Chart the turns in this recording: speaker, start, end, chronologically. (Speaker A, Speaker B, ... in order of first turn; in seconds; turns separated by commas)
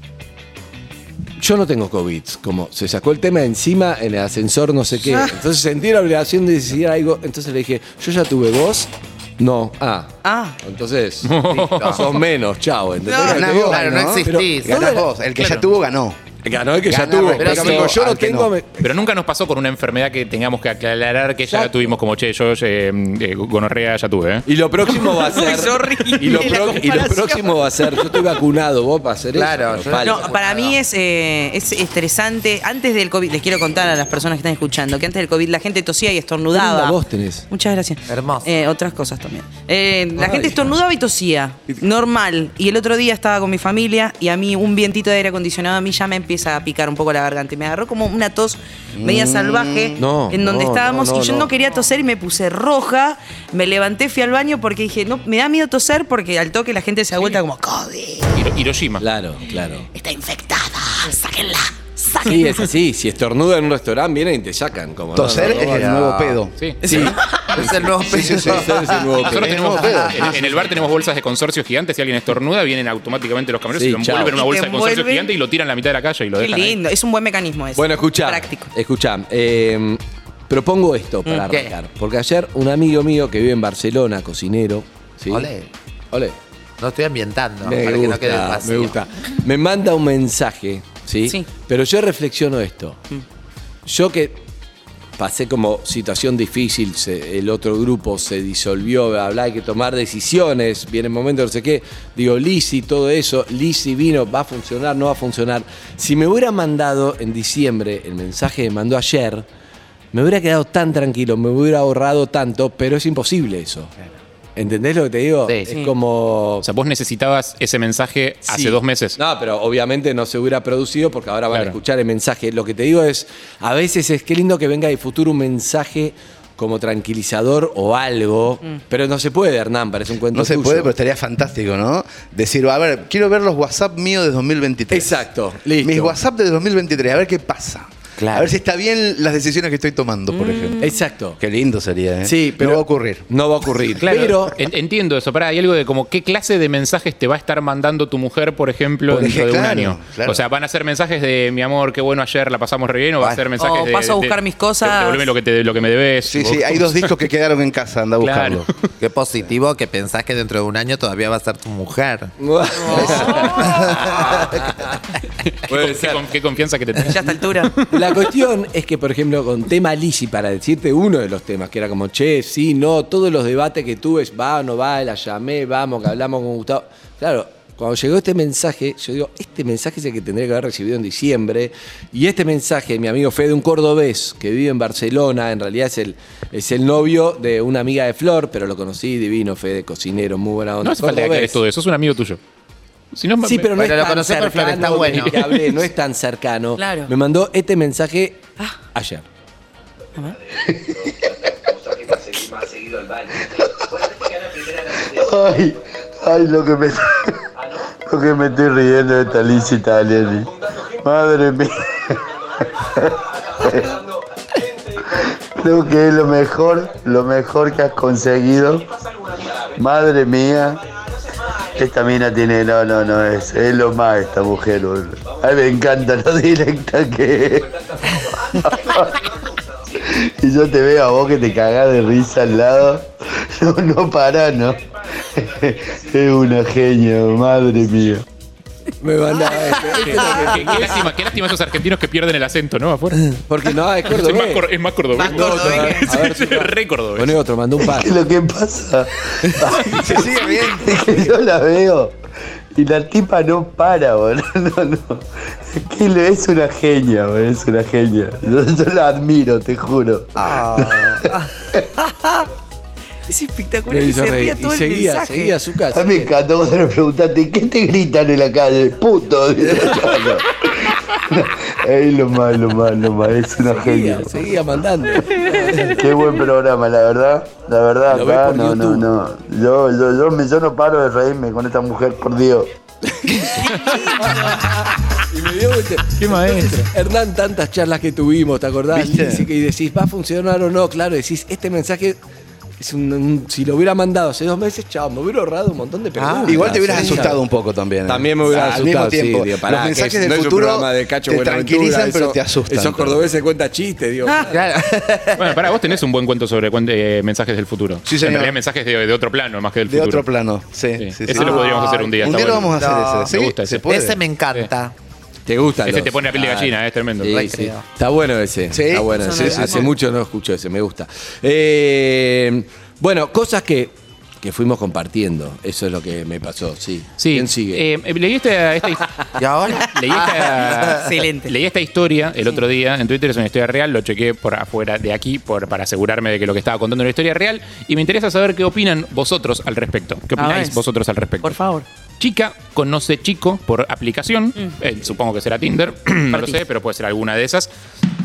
Speaker A: 1.4-15.1, Speaker B: 10.2-10.6, Speaker C: 11.2-12.2, Speaker D: 11.4-12.0, Speaker B: 13.1-13.4, Speaker E: 13.2-16.2, Speaker D: 13.6-14.8, Speaker C: 15.4-15.7, Speaker A: 16.4-19.0, Speaker D: 16.9-18.0, Speaker E: 17.1-18.5, Speaker C: 18.8-24.5, Speaker A: 21.5-21.9, Speaker A: 24.5-30.8, Speaker B: 24.9-28.3, Speaker D: 29.3-30.4, Speaker B: 30.0-37.0, Speaker A: 36.5-37.5, Speaker B: 37.5-58.4, Speaker D: 38.1-38.5, Speaker A: 40.2-40.8, Speaker E: 49.0-50.0, Speaker A: 50.0-51.5, Speaker C: 58.3-59.0, Speaker A: 59.0-59.9, Speaker B: 59.9-62.6, Speaker A: 62.2-66.1, Speaker E: 65.1-66.5, Speaker D: 65.4-69.2, Speaker A: 66.8-69.8, Speaker E: 68.1-70.6, Speaker C: 69.2-76.8, Speaker D: 70.0-70.3, Speaker A: 73.7-74.4, Speaker B: 74.3-75.3, Speaker B: 76.4-78.7, Speaker A: 77.8-85.5, Speaker D: 81.5-81.7, Speaker D: 85.3-85.7, Speaker A: 86.1-86.4, Speaker D: 86.8-89.0, Speaker A: 87.6-93.0, Speaker A: 93.8-94.4, Speaker A: 95.2-109.5, Speaker A: 110.1-113.9, Speaker A: 114.6-116.7, Speaker C: 116.6-119.2, Speaker A: 118.5-130.9, Speaker C: 121.5-121.8, Speaker E: 130.3-135.2, Speaker A: 134.9-136.2, Speaker E: 135.8-140.8, Speaker D: 138.2-138.5, Speaker B: 140.3-141.0, Speaker A: 140.8-141.4, Speaker E: 141.4-143.3, Speaker A: 142.3-144.6, Speaker C: 144.0-157.2, Speaker E: 149.1-150.4, Speaker B: 153.6-155.3, Speaker E: 156.2-158.7, Speaker C: 158.2-158.9, Speaker D: 159.0-164.8, Speaker A: 162.4-165.0, Speaker B: 163.1-163.5, Speaker C: 163.2-164.2, Speaker C: 165.4-168.2, Speaker A: 165.7-166.3, Speaker B: 167.0-167.8, Speaker A: 167.8-191.6, Speaker C: 190.8-192.4, Speaker C: 193.1-193.9, Speaker A: 193.4-199.3, Speaker D: 193.8-195.5, Speaker B: 196.8-197.1, Speaker A: 200.7-203.6, Speaker F: 205.0-207.5, Speaker F: 208.0-214.0, Speaker F: 215.0-218.9, Speaker F: 219.7-220.8, Speaker F: 221.7-229.3, Speaker F: 230.0-238.2, Speaker A: 239.0-241.1, Speaker C: 239.9-243.4, Speaker A: 243.5-248.2, Speaker C: 244.0-247.4, Speaker B: 245.2-246.3, Speaker F: 247.8-252.2, Speaker E: 249.5-251.1, Speaker F: 252.7-261.8, Speaker B: 260.6-262.5, Speaker B: 263.3-265.6, Speaker A: 263.9-266.3, Speaker F: 265.9-274.5, Speaker A: 273.7-275.9, Speaker F: 275.8-282.7, Speaker A: 278.1-279.1, Speaker A: 283.2-283.7, Speaker B: 283.6-284.5, Speaker A: 284.2-292.2, Speaker C: 286.2-286.9, Speaker E: 288.9-289.5, Speaker A: 292.8-297.4, Speaker D: 296.2-297.2, Speaker E: 296.4-303.3, Speaker A: 298.1-304.7, Speaker C: 298.5-298.8, Speaker D: 304.5-305.8, Speaker C: 305.4-310.2, Speaker E: 308.1-308.6, Speaker E: 309.9-314.2, Speaker C: 311.0-313.8, Speaker D: 311.3-314.9, Speaker A: 315.5-327.8, Speaker C: 315.8-317.4, Speaker D: 317.3-317.8, Speaker E: 318.7-319.9, Speaker B: 319.2-319.8, Speaker C: 327.2-329.1, Speaker D: 329.4-331.0, Speaker C: 329.9-341.6, Speaker B: 330.7-331.5, Speaker B: 340.4-340.8, Speaker B: 341.4-341.9, Speaker C: 342.2-347.7